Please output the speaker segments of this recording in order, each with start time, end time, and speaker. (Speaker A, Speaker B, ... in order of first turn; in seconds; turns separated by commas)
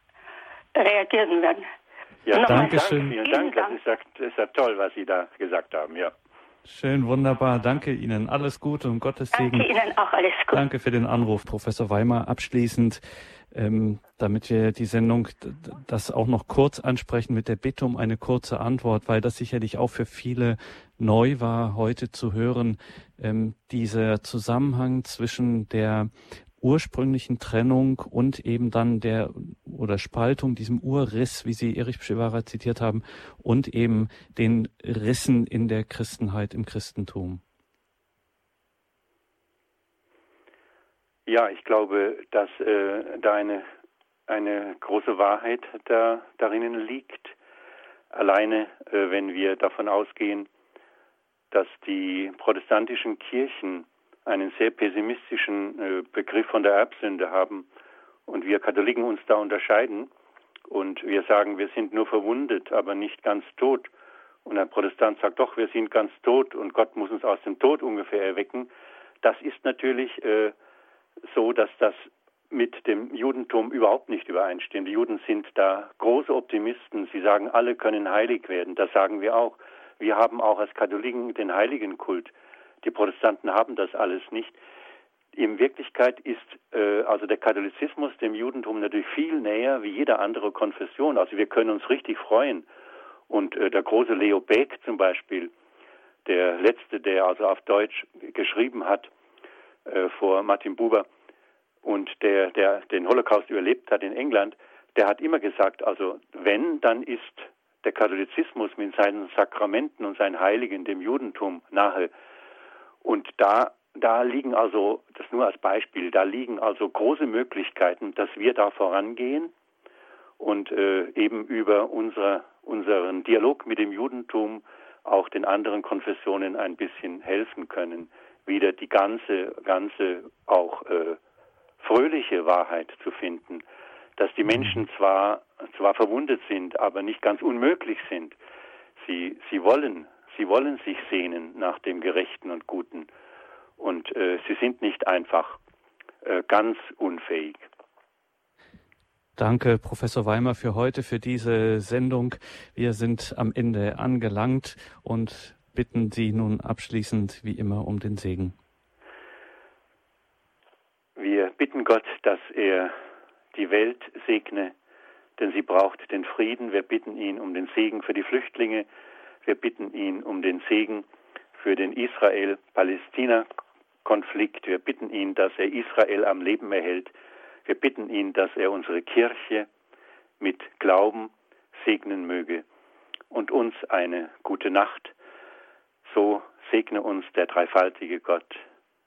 Speaker A: 0.8-1.7, Speaker B: 2.3-6.1, Speaker A: 2.3-3.8, Speaker C: 2.4-3.2, Speaker C: 6.7-9.7, Speaker A: 9.3-10.6, Speaker C: 10.5-37.4, Speaker B: 41.3-43.6, Speaker B: 44.3-47.4, Speaker B: 48.1-50.5, Speaker B: 51.5-57.7, Speaker B: 58.3-60.1, Speaker B: 60.7-63.9, Speaker B: 64.5-68.7, Speaker B: 69.2-70.5, Speaker B: 71.2-84.6, Speaker B: 85.3-92.7, Speaker B: 93.3-95.5, Speaker B: 96.2-99.1, Speaker B: 99.9-101.1, Speaker B: 101.8-112.1, Speaker B: 113.0-119.5, Speaker B: 120.4-131.2, Speaker B: 131.8-133.7, Speaker B: 134.2-138.4, Speaker B: 139.0-143.1, Speaker B: 143.8-145.6, Speaker B: 146.2-147.7, Speaker C: 149.4-158.6, Speaker B: 161.2-162.9, Speaker B: 163.5-164.7, Speaker B: 165.4-168.9, Speaker B: 169.4-173.5, Speaker B: 174.1-177.1, Speaker B: 177.7-179.7, Speaker B: 180.4-182.7, Speaker B: 183.3-185.2, Speaker B: 186.0-188.6